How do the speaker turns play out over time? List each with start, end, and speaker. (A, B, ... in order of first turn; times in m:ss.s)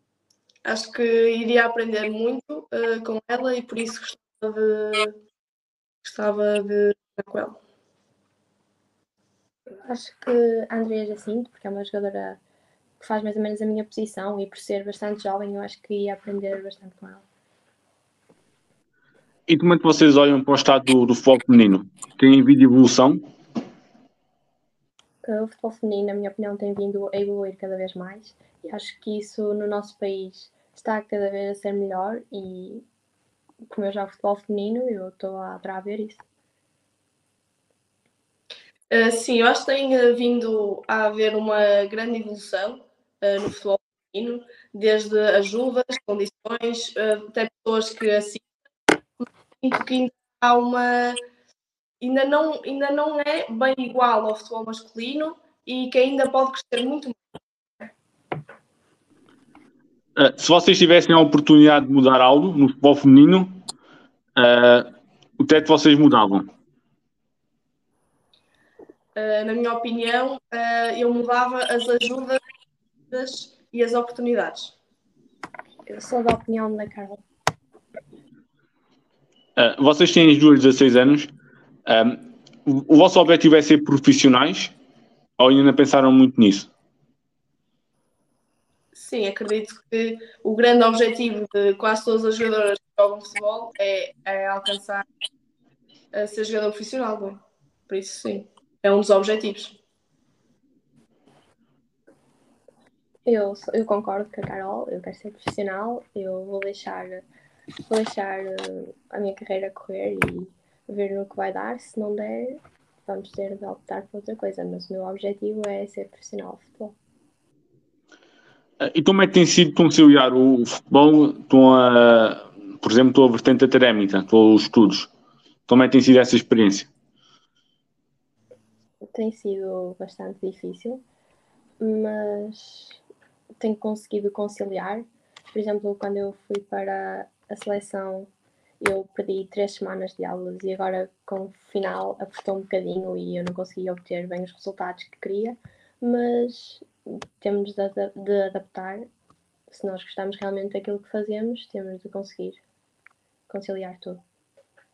0:00.6-0:05.1 A
0:06.0-0:07.6 A
0:09.8-0:12.4 B
0:13.0-0:17.2 B
0:19.5-0:23.2 C
0:25.2-0:32.8 B
0:33.7-0:36.2 B
0:38.9-0:48.5 A
0:49.6-0:51.2 A
0:52.0-0:57.2 A
1:00.2-1:03.6 C
1:04.4-1:04.9 C
1:05.4-1:06.5 C
1:09.2-1:12.4 A
1:13.1-1:14.7 A
1:15.9-1:17.2 B
1:19.6-1:21.3 C
1:21.9-1:24.7 C
1:25.4-1:26.7 C
1:29.0-1:35.0 A
1:36.1-1:39.8 A
1:43.2-1:47.2 B
1:47.9-1:57.0 B
1:58.8-2:05.1 C
2:05.7-2:06.9 C
2:09.1-2:11.0 B
2:11.8-2:13.0 B
2:13.6-2:29.0 B
2:29.7-2:32.6 B
2:33.5-2:34.2 B